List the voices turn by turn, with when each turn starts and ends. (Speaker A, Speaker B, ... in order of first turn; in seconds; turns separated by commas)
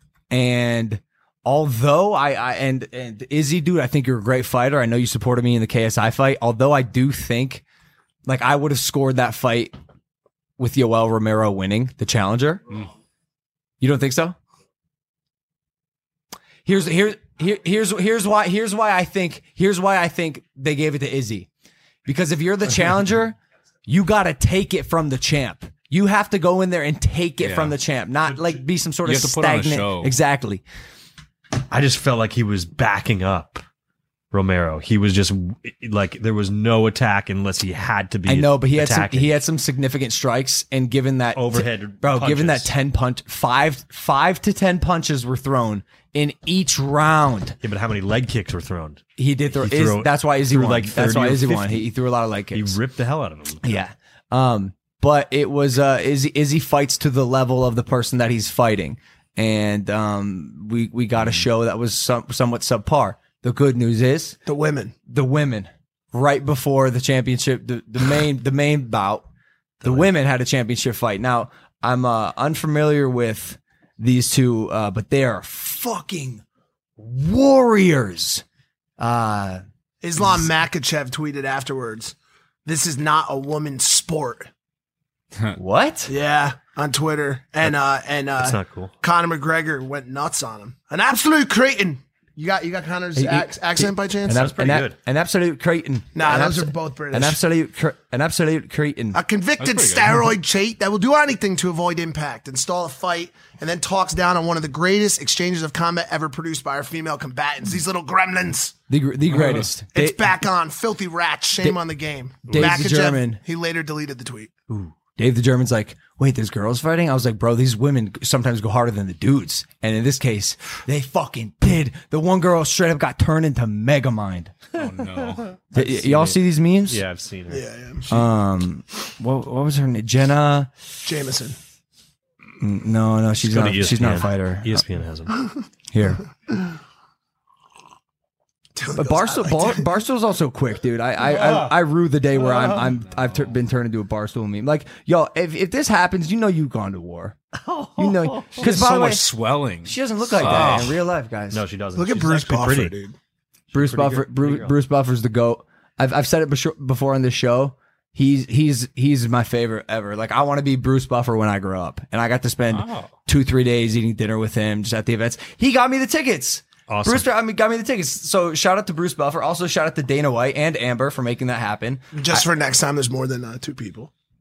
Speaker A: 0.3-7.6, Speaker A: 8.3-9.8, Speaker A: 10.6-12.7, Speaker A: 13.8-14.4, Speaker A: 16.6-21.5, Speaker A: 22.1-30.6, Speaker B: 27.4-27.8, Speaker C: 28.3-28.6, Speaker B: 29.0-30.1, Speaker C: 31.7-33.6, Speaker C: 34.3-39.4, Speaker A: 38.3-47.6, Speaker C: 41.4-42.7, Speaker C: 47.6-49.0, Speaker A: 49.2-52.8, Speaker C: 49.6-51.9, Speaker C: 52.5-53.8, Speaker A: 53.6-64.4, Speaker D: 64.5-65.0, Speaker A: 65.1-69.3, Speaker C: 69.8-70.1, Speaker A: 69.8-76.4, Speaker A: 77.0-78.4, Speaker A: 79.0-79.6, Speaker D: 80.0-82.2, Speaker D: 82.7-84.5, Speaker A: 85.5-86.1, Speaker D: 86.1-94.4, Speaker C: 88.4-88.9, Speaker A: 93.2-99.2, Speaker C: 94.3-95.0, Speaker D: 96.2-97.4, Speaker D: 99.1-108.8, Speaker B: 99.6-100.2, Speaker A: 108.9-110.4, Speaker D: 109.9-114.5, Speaker C: 112.5-112.8, Speaker A: 112.5-113.4, Speaker A: 115.2-124.5, Speaker B: 124.8-125.6, Speaker C: 125.1-127.6, Speaker A: 125.7-127.0, Speaker D: 127.5-128.1, Speaker A: 128.1-130.7, Speaker D: 131.0-131.6, Speaker A: 132.6-134.9, Speaker C: 133.4-135.3, Speaker A: 135.9-136.2, Speaker D: 138.8-139.9, Speaker A: 138.9-147.4, Speaker C: 147.6-148.6, Speaker A: 148.0-149.3, Speaker B: 148.5-150.9, Speaker A: 149.8-151.6, Speaker C: 150.4-150.9, Speaker C: 151.5-152.9, Speaker D: 152.0-153.1, Speaker A: 153.7-172.5, Speaker C: 153.8-154.7, Speaker B: 162.7-163.1, Speaker C: 166.9-167.3, Speaker D: 172.1-174.1